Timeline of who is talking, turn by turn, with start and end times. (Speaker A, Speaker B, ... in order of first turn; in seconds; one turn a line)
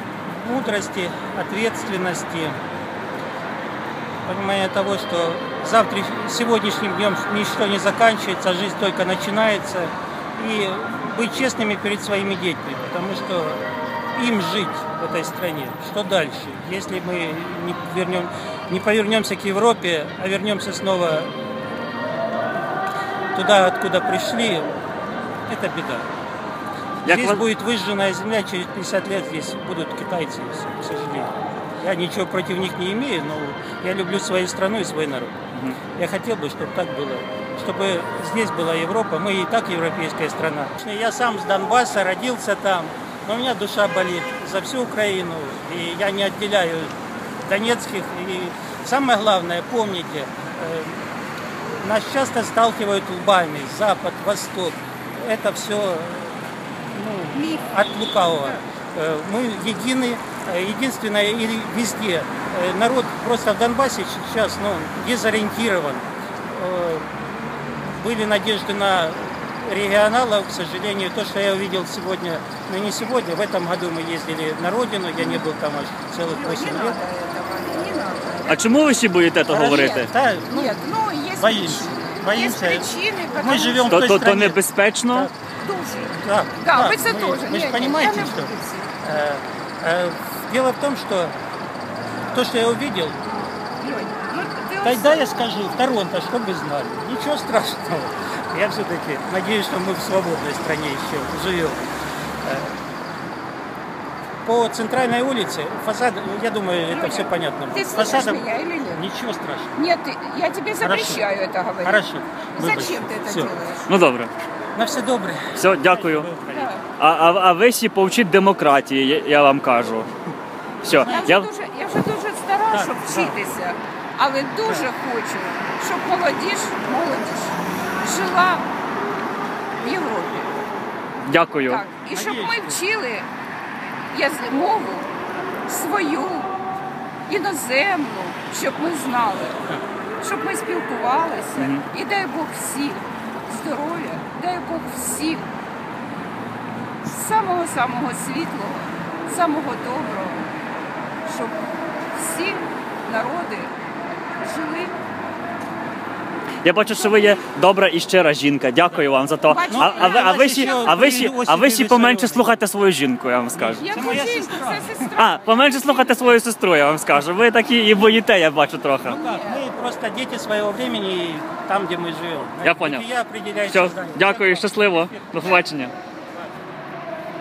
Speaker A: 0.3-2.6
Speaker A: 4.3-13.6
Speaker A: 14.2-21.3
Speaker A: 23.3-24.7
Speaker A: 25.5-26.1
Speaker B: 27.1-27.4
Speaker A: 27.1-35.3
Speaker A: 36.0-46.9
Speaker A: 47.5-51.0
Speaker A: 51.8-67.1
Speaker C: 57.4-58.6
Speaker A: 68.0-77.0
Speaker C: 76.3-78.6
Speaker B: 78.5-80.1
Speaker A: 79.5-80.8
Speaker C: 79.7-84.1
Speaker A: 81.4-84.6
Speaker B: 83.9-85.3
Speaker C: 85.6-88.9
Speaker A: 86.1-91.3
Speaker A: 92.3-93.2
Speaker C: 93.8-95.2
Speaker A: 94.8-101.8
Speaker A: 102.4-102.8
Speaker A: 104.4-109.8
Speaker C: 106.9-109.0
Speaker C: 109.8-113.9
Speaker A: 110.8-111.3
Speaker A: 111.8-113.5
Speaker B: 113.9-114.3
Speaker A: 114.8-116.7
Speaker B: 115.5-116.3
Speaker C: 116.5-116.8
Speaker B: 117.0-120.1
Speaker B: 120.8-121.5
Speaker A: 120.8-121.4
Speaker C: 121.0-128.7
Speaker A: 122.7-123.4
Speaker A: 124.7-124.9
Speaker C: 129.8-130.6
Speaker B: 131.2-131.8
Speaker C: 131.6-133.3
Speaker A: 132.1-132.8
Speaker C: 134.1-135.1
Speaker C: 135.7-136.5
Speaker C: 137.3-139.6
Speaker C: 140.2-145.5
Speaker B: 141.6-141.8
Speaker C: 147.0-150.5
Speaker C: 151.2-151.6
Speaker C: 152.1-153.7
Speaker C: 154.4-155.0
Speaker B: 156.6-164.0
Speaker C: 157.0-157.4
Speaker C: 159.5-161.3
Speaker A: 159.7-162.5
Speaker A: 163.6-165.1
Speaker C: 163.8-166.1
Speaker B: 165.2-169.2
Speaker A: 169.1-175.6
Speaker C: 169.1-169.6
Speaker B: 172.6-173.1
Speaker B: 173.7-175.9